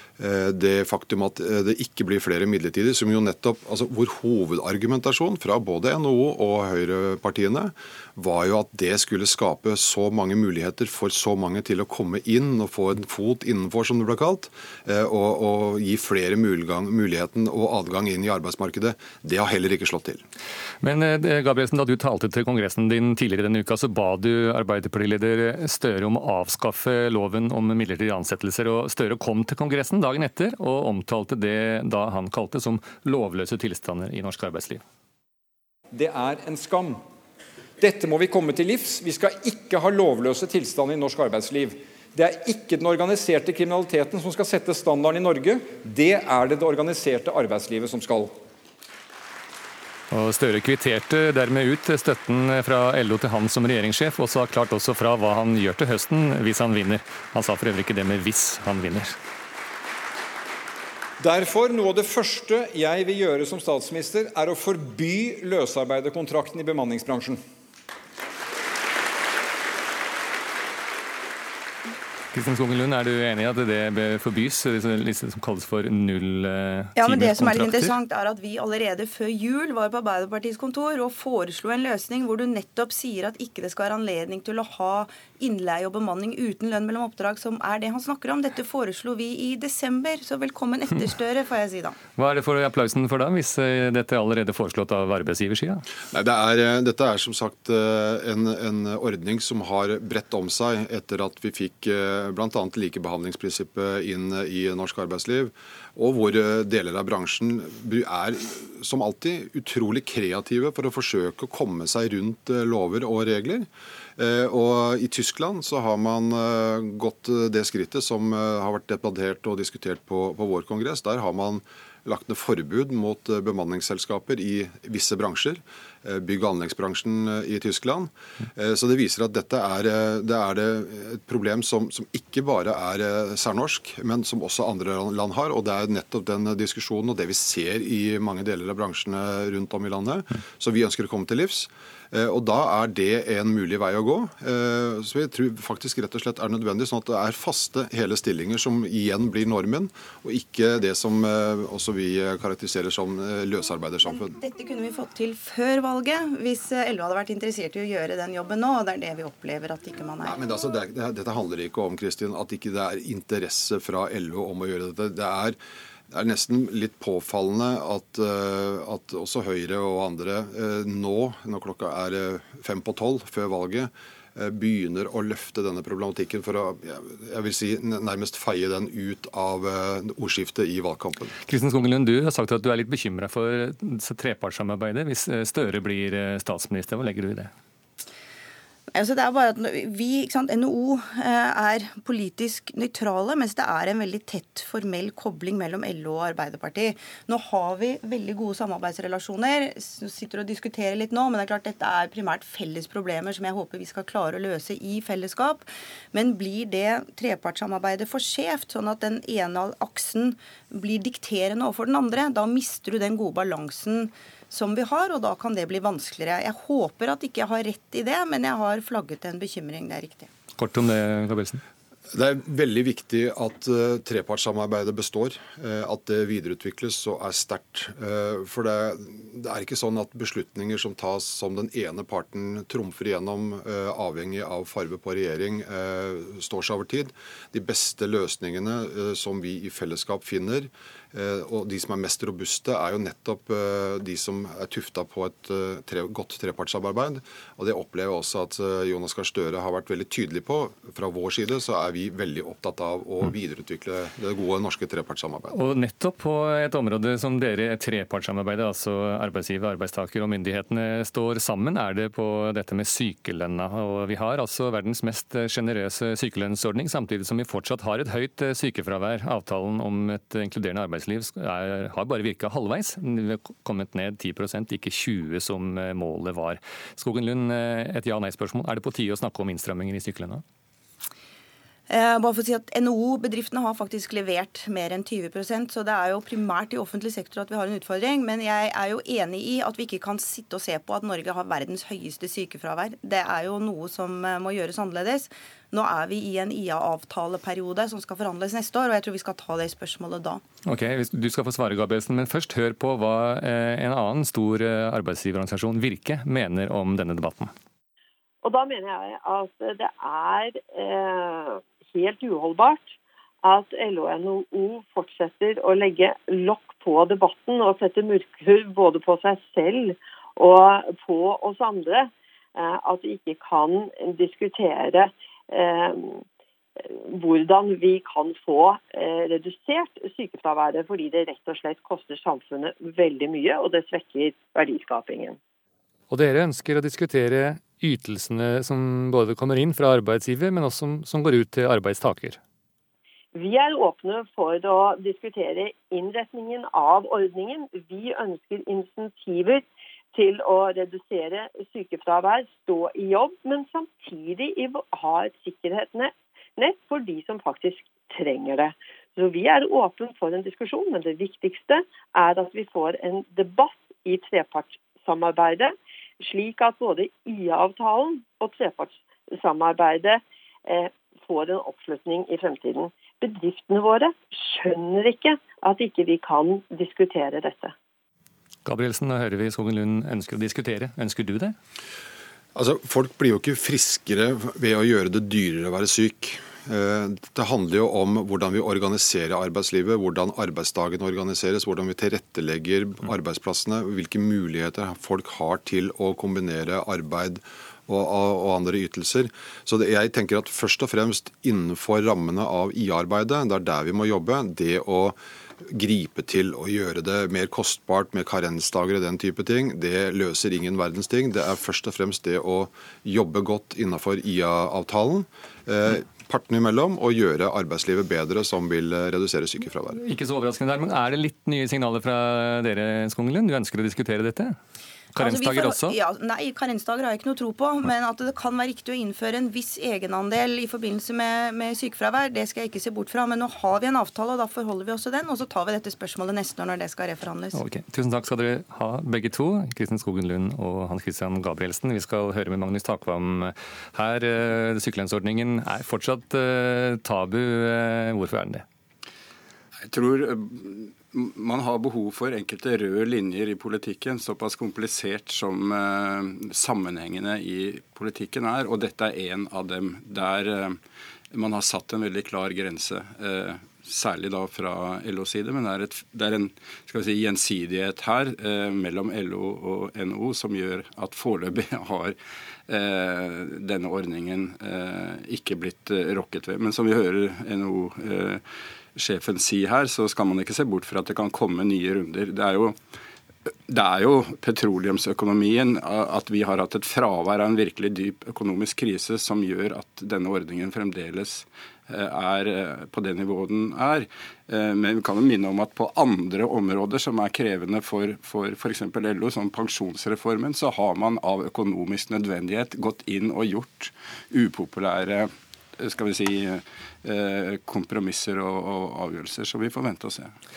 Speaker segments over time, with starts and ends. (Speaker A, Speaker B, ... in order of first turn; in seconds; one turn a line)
Speaker A: 0.2-20.2
Speaker B: 20.8-34.8
Speaker C: 35.9-37.0
Speaker C: 37.8-48.4
Speaker B: 50.1-59.1
Speaker C: 61.2-67.4
Speaker B: 72.3-77.9
Speaker D: 77.0-92.0
Speaker B: 92.2-95.8
Speaker A: 96.1-154.3
Speaker D: 154.2-160.3
Speaker A: 160.2-165.6
Speaker A: 166.1-181.3
Speaker B: 181.5-187.5
Speaker D: 188.9-220.3
Speaker B: 220.6-221.6
Speaker A: 222.1-255.6
Speaker B: 255.5-280.4
Speaker D: 281.9-300.4
Speaker B: 300.6-307.5
Speaker E: 308.4-326.2
Speaker E: 326.8-335.4
Speaker B: 336.1-342.4
Speaker E: 343.3-377.7
Speaker B: 378.6-381.6
Speaker A: 382.6-405.2
Speaker A: 405.7-420.0
Speaker B: 420.0-424.6
Speaker B: 425.1-426.0
Speaker D: 425.2-437.6
Speaker B: 437.5-448.6
Speaker F: 449.9-460.8
Speaker F: 461.3-472.1
Speaker F: 472.7-478.4
Speaker F: 479.0-482.8
Speaker F: 483.7-510.3